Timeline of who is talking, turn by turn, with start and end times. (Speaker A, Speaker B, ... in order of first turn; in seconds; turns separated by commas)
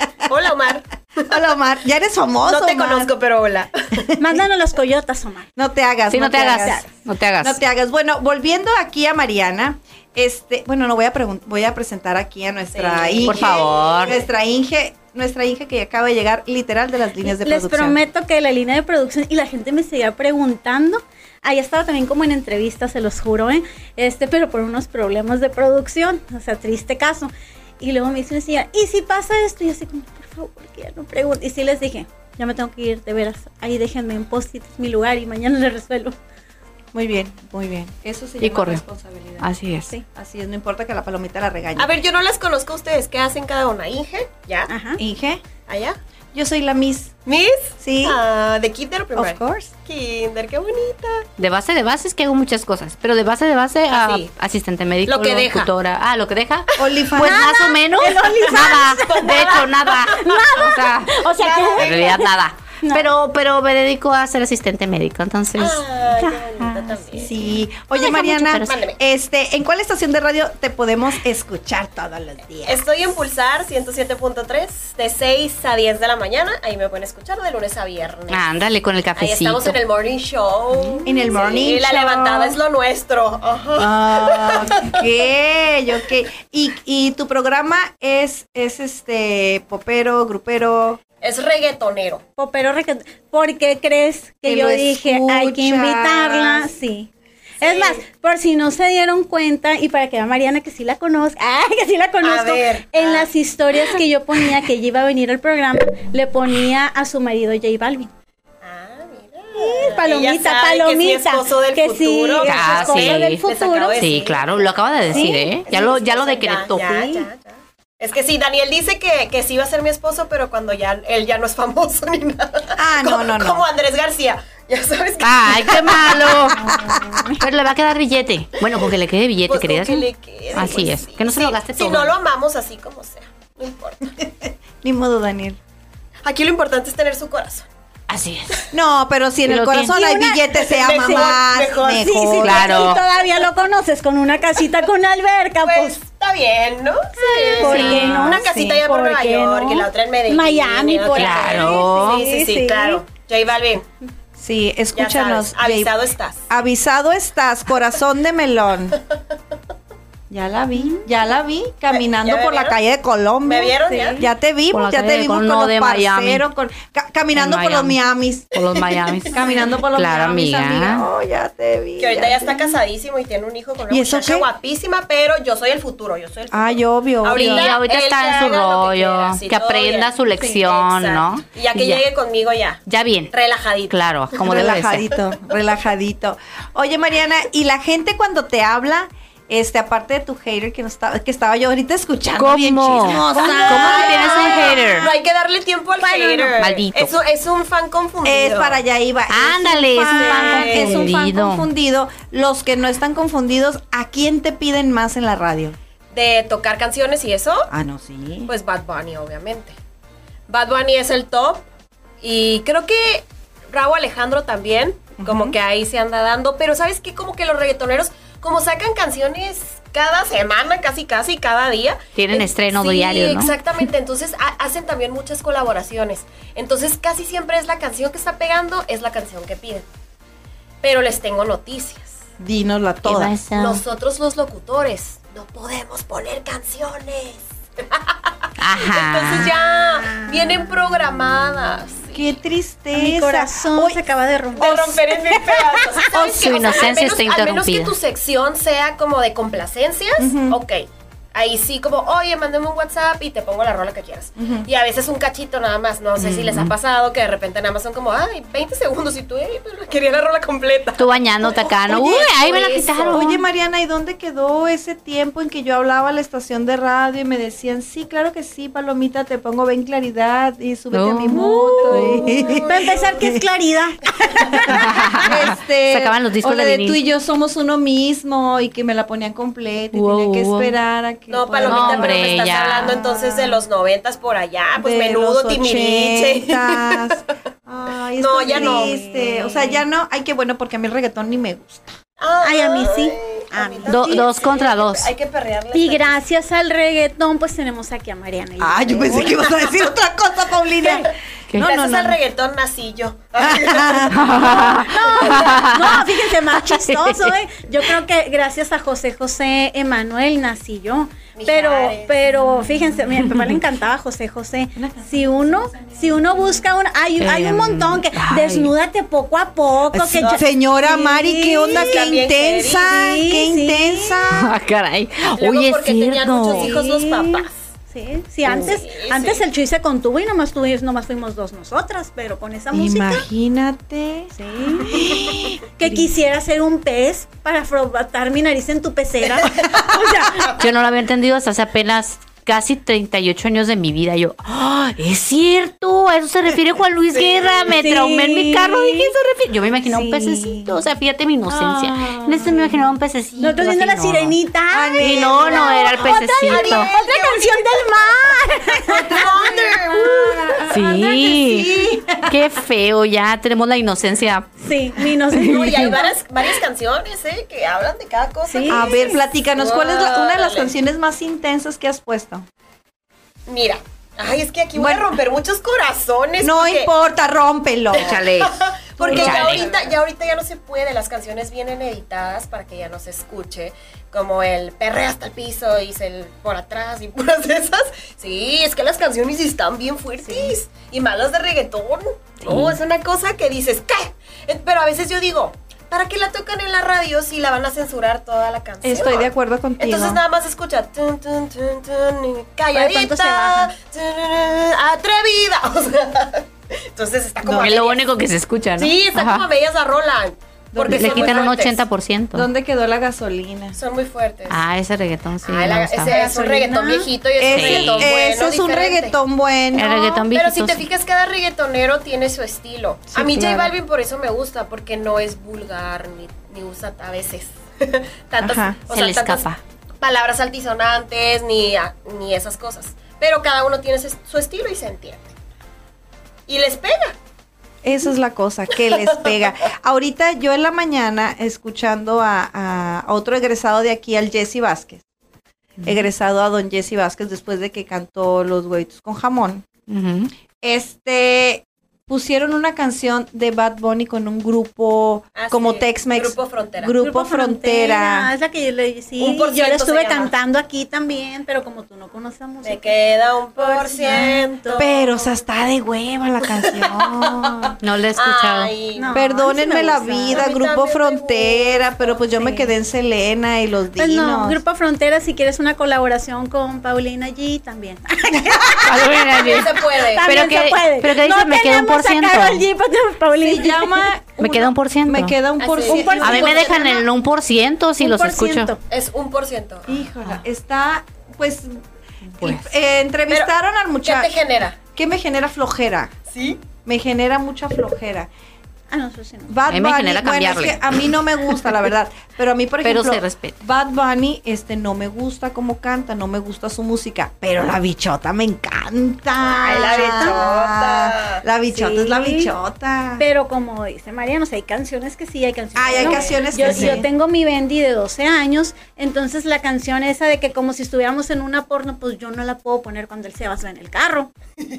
Speaker A: 0.2-1.3, Speaker B: 1.3-3.1, Speaker A: 2.5-4.1, Speaker C: 4.2-5.5, Speaker B: 5.5-6.8, Speaker D: 6.1-7.6, Speaker C: 6.4-6.8, Speaker B: 7.4-18.0, Speaker A: 12.7-14.2, Speaker D: 13.2-14.2, Speaker C: 17.2-36.2, Speaker B: 36.9-39.5, Speaker D: 38.4-38.8, Speaker D: 39.4-39.9, Speaker B: 40.1-41.9, Speaker A: 41.8-44.7, Speaker C: 44.7-45.0, Speaker B: 45.0-45.4, Speaker A: 45.7-46.0, Speaker B: 46.3-47.1, Speaker A: 47.2-51.2, Speaker B: 47.8-48.2, Speaker B: 49.1-49.7, Speaker D: 51.4-61.2, Speaker A: 53.9-54.3, Speaker A: 55.1-55.7, Speaker B: 56.8-57.5, Speaker C: 57.2-62.3, Speaker A: 58.5-60.2, Speaker A: 61.4-62.3, Speaker D: 61.8-68.8, Speaker C: 62.8-63.1, Speaker A: 65.6-67.3, Speaker B: 67.2-72.8, Speaker A: 68.7-69.0, Speaker A: 72.7-78.5, Speaker D: 78.3-79.8, Speaker A: 79.2-85.1, Speaker B: 81.0-82.6, Speaker C: 81.0-81.3, Speaker B: 83.8-91.0, Speaker A: 91.2-92.2, Speaker C: 92.4-97.1, Speaker B: 94.4-96.7, Speaker A: 97.6-98.0, Speaker C: 97.6-108.1, Speaker A: 102.2-103.3, Speaker A: 108.6-114.7, Speaker C: 109.5-114.1, Speaker D: 112.4-113.4, Speaker D: 114.0-116.8, Speaker C: 115.1-115.5, Speaker A: 115.7-126.5, Speaker C: 116.7-117.3, Speaker B: 122.8-123.6, Speaker D: 125.2-126.8, Speaker C: 126.5-127.5, Speaker B: 126.7-127.1, Speaker D: 127.4-132.1, Speaker A: 128.7-128.9, Speaker A: 129.5-134.1, Speaker B: 134.2-135.6, Speaker A: 136.2-137.7, Speaker D: 138.1-138.6, Speaker B: 138.7-142.7, Speaker D: 139.4-139.9, Speaker C: 139.9-141.3, Speaker A: 140.6-143.2, Speaker C: 142.0-146.0, Speaker D: 142.4-143.0, Speaker A: 145.6-153.8, Speaker C: 147.2-153.0, Speaker D: 147.6-148.6, Speaker D: 151.1-152.2, Speaker B: 154.3-155.9, Speaker A: 154.9-156.4, Speaker B: 156.5-159.0, Speaker B: 160.3-168.6, Speaker C: 160.8-161.1, Speaker A: 161.9-162.8, Speaker A: 163.4-164.2, Speaker C: 163.9-164.3, Speaker D: 164.7-166.4, Speaker D: 167.3-168.0, Speaker D: 168.5-171.1, Speaker A: 168.9-169.3, Speaker B: 169.3-172.8, Speaker A: 172.0-185.1, Speaker B: 173.9-174.5, Speaker B: 176.5-177.7, Speaker D: 177.3-182.0, Speaker D: 182.9-183.3, Speaker D: 183.9-185.1, Speaker B: 184.4-195.1, Speaker D: 192.4-195.1, Speaker C: 193.3-195.1, Speaker A: 193.3-198.8, Speaker C: 196.0-196.6, Speaker D: 196.5-197.1, Speaker B: 198.2-205.8, Speaker D: 199.3-201.7, Speaker A: 200.1-201.1, Speaker A: 206.1-207.7, Speaker B: 207.7-208.5, Speaker A: 208.5-209.8, Speaker A: 210.5-211.6, Speaker A: 212.2-229.8, Speaker B: 215.2-215.6, Speaker D: 222.1-223.8, Speaker A: 230.8-232.2, Speaker B: 232.4-233.3, Speaker D: 233.0-233.8, Speaker A: 233.5-242.4, Speaker D: 238.6-239.5, Speaker C: 239.6-240.7, Speaker B: 242.1-244.0, Speaker C: 242.9-246.0, Speaker B: 244.6-245.0, Speaker A: 244.6-263.2, Speaker D: 246.1-248.0, Speaker B: 246.3-246.7, Speaker B: 250.2-250.6, Speaker B: 254.4-254.7, Speaker D: 256.2-256.7, Speaker D: 261.0-263.4, Speaker B: 261.9-262.3, Speaker B: 263.1-273.4, Speaker D: 270.9-272.2, Speaker C: 271.3-275.2, Speaker A: 271.9-273.2, Speaker B: 274.3-283.6, Speaker D: 274.7-277.0, Speaker D: 279.9-280.7, Speaker A: 281.3-287.2, Speaker D: 281.6-283.0, Speaker B: 284.8-291.9, Speaker A: 288.2-289.0, Speaker C: 288.5-289.8, Speaker A: 292.2-296.2, Speaker C: 292.4-294.3, Speaker D: 293.9-295.1, Speaker C: 295.7-299.5, Speaker B: 298.6-302.2, Speaker A: 300.8-304.5, Speaker B: 303.4-304.6, Speaker D: 304.1-307.3, Speaker C: 304.4-322.0, Speaker A: 311.3-312.1, Speaker B: 314.8-316.6, Speaker D: 317.2-318.7, Speaker B: 319.9-324.5, Speaker A: 321.7-322.9, Speaker C: 322.8-324.2, Speaker D: 324.3-326.8, Speaker A: 325.4-327.6, Speaker C: 326.5-333.3, Speaker A: 328.4-329.4, Speaker B: 332.7-336.1, Speaker C: 334.3-335.1, Speaker C: 335.8-340.6, Speaker D: 340.5-354.4, Speaker A: 347.1-347.7, Speaker C: 347.7-349.1, Speaker C: 349.9-350.7, Speaker B: 351.5-352.9, Speaker C: 353.4-359.1, Speaker B: 354.7-355.7, Speaker D: 355.0-356.9, Speaker A: 355.2-358.1, Speaker A: 358.8-360.6, Speaker B: 358.9-362.5, Speaker D: 360.7-364.5, Speaker C: 364.6-366.1, Speaker D: 365.3-366.0, Speaker A: 365.5-370.7, Speaker C: 368.4-369.2, Speaker B: 368.7-372.4, Speaker A: 373.5-376.9, Speaker B: 374.7-375.1, Speaker B: 376.4-378.2, Speaker D: 377.9-379.6, Speaker A: 377.9-408.0, Speaker B: 379.0-379.8, Speaker C: 390.2-390.6, Speaker D: 392.4-392.8, Speaker B: 398.8-400.2, Speaker C: 402.7-403.7, Speaker B: 407.4-407.7, Speaker D: 407.5-409.5, Speaker A: 408.8-411.8, Speaker B: 410.7-411.6, Speaker D: 410.9-412.5, Speaker B: 412.3-413.8, Speaker A: 413.7-414.6, Speaker D: 414.5-416.1, Speaker A: 415.4-419.1, Speaker C: 416.0-417.1, Speaker B: 417.4-420.2, Speaker D: 417.5-418.1, Speaker D: 419.7-420.8, Speaker A: 420.3-429.5, Speaker B: 423.1-423.7, Speaker B: 428.4-428.8, Speaker D: 428.9-429.6, Speaker A: 430.0-435.3, Speaker A: 436.5-437.1, Speaker B: 437.8-445.0, Speaker D: 445.8-446.1, Speaker B: 445.8-449.6, Speaker D: 449.9-450.3, Speaker B: 450.6-458.3, Speaker A: 455.3-456.9, Speaker C: 457.0-464.8, Speaker A: 459.2-460.3, Speaker A: 462.6-465.3, Speaker B: 464.8-467.8, Speaker A: 466.6-469.2, Speaker D: 467.8-468.7, Speaker C: 468.9-470.5, Speaker B: 469.1-474.6, Speaker A: 470.3-472.2, Speaker C: 472.4-472.7, Speaker C: 474.0-484.1, Speaker B: 478.3-479.0, Speaker D: 478.8-482.6, Speaker A: 479.3-480.3, Speaker B: 483.3-486.8, Speaker D: 484.4-485.4, Speaker A: 485.6-487.0, Speaker C: 485.9-486.8, Speaker D: 486.2-488.7, Speaker C: 488.0-488.8, Speaker A: 488.9-490.0, Speaker B: 489.9-491.8, Speaker D: 492.3-492.7, Speaker B: 492.4-494.3, Speaker A: 494.0-494.8, Speaker B: 494.9-496.1, Speaker A: 496.3-496.6, Speaker B: 496.8-498.3, Speaker C: 498.9-499.6, Speaker B: 499.5-513.2, Speaker D: 499.7-501.0, Speaker D: 502.8-503.6, Speaker A: 509.6-511.4, Speaker C: 509.7-510.4, Speaker C: 511.7-512.5, Speaker C: 513.2-524.3, Speaker B: 515.8-517.1, Speaker A: 516.0-517.0